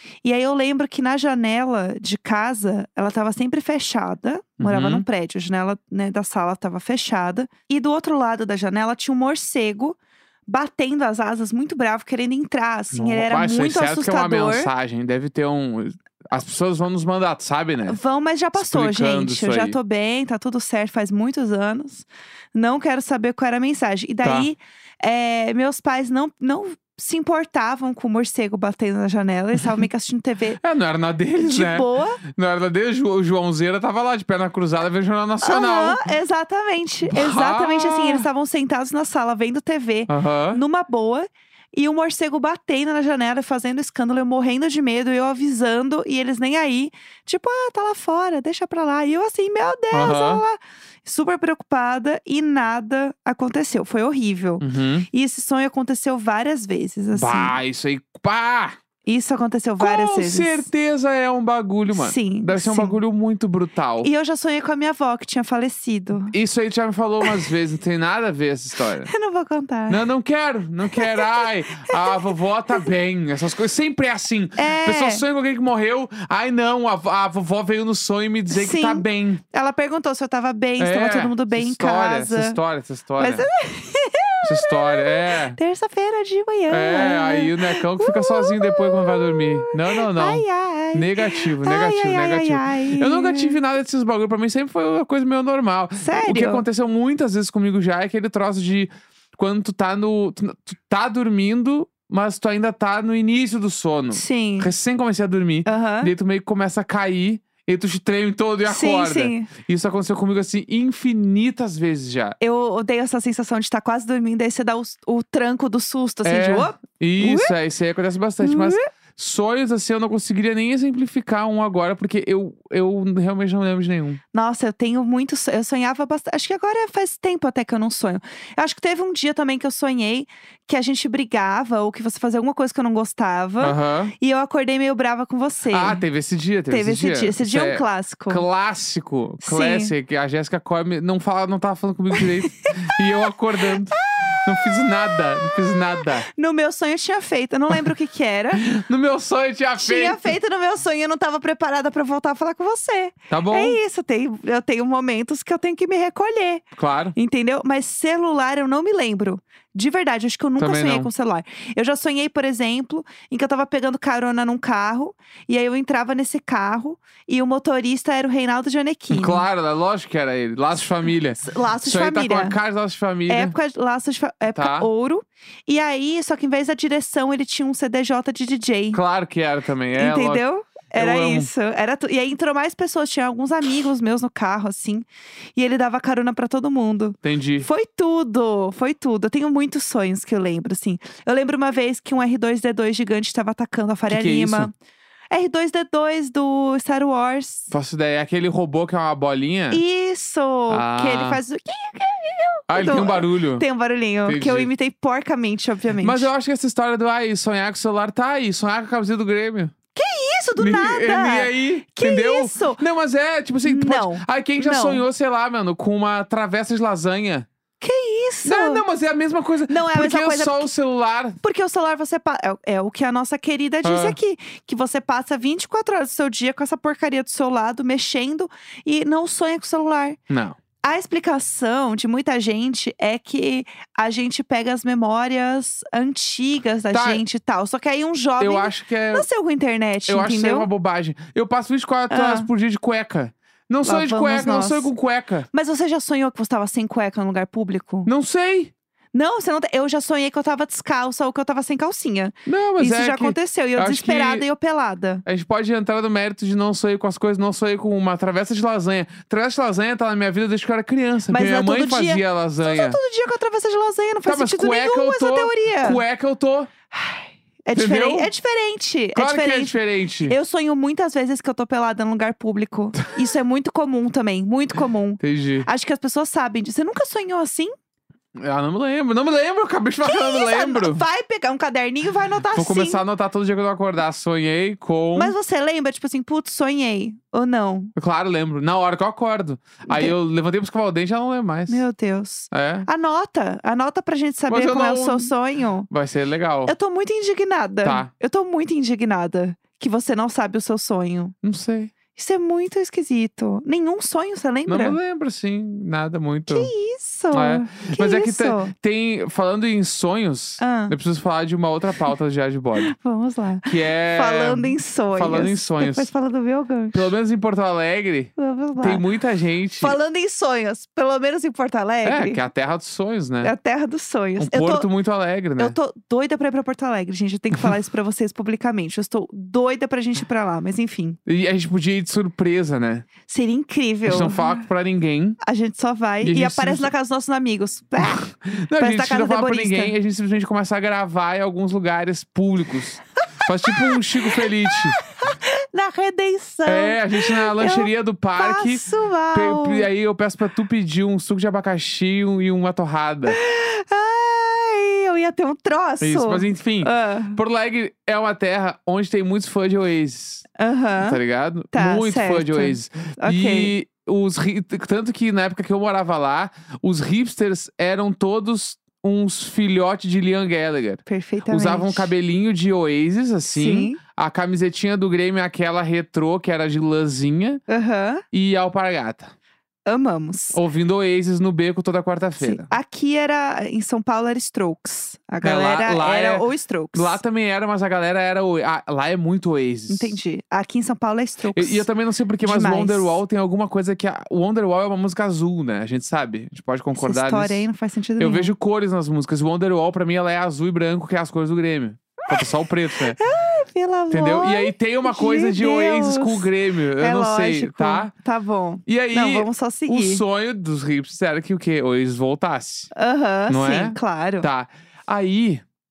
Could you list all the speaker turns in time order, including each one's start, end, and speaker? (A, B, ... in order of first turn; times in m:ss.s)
0:00.2-0:14.7 A
0:04.6-0:05.0 B
0:12.9-0:18.0 B
0:17.9-0:30.6 A
0:18.6-0:19.8 B
0:24.2-0:24.5 B
0:30.6-0:36.0 B
0:31.4-0:32.2 A
0:35.4-0:57.6 A
0:37.1-0:38.2 B
0:40.1-0:40.6 B
0:49.9-0:50.4 B
0:54.6-0:55.1 B
0:57.1-0:58.8 B
0:59.0-1:00.7 A
0:59.8-1:04.1 B
1:01.9-1:03.0 A
1:04.0-1:06.3 A
1:06.3-1:09.1 B
1:07.2-1:07.5 A
1:09.1-1:10.1 A
1:09.9-1:19.4 B
1:10.9-1:12.9 A
1:14.6-1:15.2 A
1:18.5-1:22.6 A
1:20.8-1:23.5 B
1:23.2-1:33.6 A
1:24.4-1:25.6 B
1:26.7-1:52.4 B
1:36.0-1:36.6 A
1:44.1-1:44.7 A
1:45.7-1:46.1 A
1:48.7-1:49.5 A
1:52.4-1:57.5 A
1:56.2-2:04.2 B
1:58.4-1:58.9 A
2:04.3-2:16.0 A
2:13.6-2:14.1 B
2:15.7-2:26.3 B
2:16.7-2:18.4 A
2:19.4-2:19.9 A
2:22.2-2:23.0 A
2:23.7-2:24.3 A
2:26.3-2:28.6 A
2:28.6-2:30.3 B
2:29.8-2:36.6 A
2:33.3-2:33.8 B
2:36.8-2:37.2 B
2:37.2-2:49.5 A
2:40.6-2:41.1 B
2:49.1-2:53.6 B
2:51.4-2:52.6 A
2:53.3-2:59.0 A
2:54.6-2:54.9 B
2:58.9-3:00.4 B
3:00.0-3:14.7 A
3:01.0-3:01.5 B
3:07.2-3:07.7 B
3:14.1-3:14.7 B
3:15.3-3:17.7 A
3:17.7-3:19.8 B
3:19.7-3:26.3 A
3:20.7-3:21.4 B
3:22.7-3:23.6 B
3:24.3-3:24.7 B
3:26.0-3:29.7 B
3:29.9-3:32.8 A
3:30.6-3:37.5 B
3:33.6-3:35.0 A
3:37.8-3:38.9 A
3:38.4-3:41.4 B
3:39.7-3:40.7 A
3:41.4-3:50.2 A
3:43.8-3:44.2 B
3:50.3-3:50.6 B
3:50.8-4:00.7 A
3:56.9-3:57.2 B
3:58.4-3:59.3 B
4:00.1-4:05.5 B
4:02.1-4:02.5 A
4:03.8-4:04.9 A
4:05.5-4:08.1 A
4:08.1-4:08.7 B
4:09.1-4:15.2 A
4:12.5-4:14.4 B
4:15.2-4:23.0 B
4:21.3-4:26.0 A
4:24.2-4:26.7 B
4:26.9-4:37.7 A
4:27.7-4:28.3 B
4:29.1-4:30.4 B
4:35.2-4:35.7 B
4:38.4-4:41.0 B
4:40.0-4:43.0 A
4:42.5-4:45.3 B
4:45.2-4:47.9 A
4:48.0-4:51.8 B
4:49.9-4:50.1 A
4:51.7-4:55.9 A
4:52.5-4:52.9 B
4:54.5-4:55.3 B
4:55.9-4:56.7 B
4:56.6-5:01.4 A
4:57.8-4:58.1 B
5:01.4-5:01.9 B
5:02.1-5:05.0 A
5:04.7-5:06.7 B
5:06.5-5:08.7 A
5:07.3-5:12.9 B
5:10.6-5:10.9 A
5:12.8-5:17.1 A
5:13.6-5:16.1 B
5:16.9-5:20.0 B
5:18.4-5:19.0 A
5:19.8-5:22.4 A
5:22.0-5:23.5 B
5:23.4-5:24.9 A
5:24.4-5:25.8 B
5:25.6-5:31.2 A
5:31.3-5:33.1 B
5:33.3-5:34.5 A
5:34.1-5:35.4 B
5:35.4-5:38.3 A
5:36.2-5:36.9 B
5:38.0-5:45.0 B
5:38.8-5:40.0 A
5:43.7-5:44.4 A
5:45.2-5:49.9 A
5:46.6-5:53.4 B
5:53.3-5:57.4 A
5:56.0-6:00.4 B
6:00.6-6:01.2 A
6:01.0-6:17.6 B
6:01.7-6:03.7 A
6:11.1-6:12.1 A
6:13.5-6:14.0 A
6:17.7-6:18.2 A
6:18.3-6:19.3 B
6:19.9-6:20.6 A
6:20.5-6:22.7 B
6:22.4-6:27.2 A
6:25.4-6:30.2 B
6:29.9-6:31.9 A
6:31.6-6:37.6 B
6:32.4-6:33.2 A
6:37.0-6:38.5 A
6:38.2-6:43.2 B
6:42.3-6:50.2 A
6:44.1-6:48.1 B
6:48.9-6:52.9 B
6:52.9-6:54.5 A
6:53.5-6:55.6 B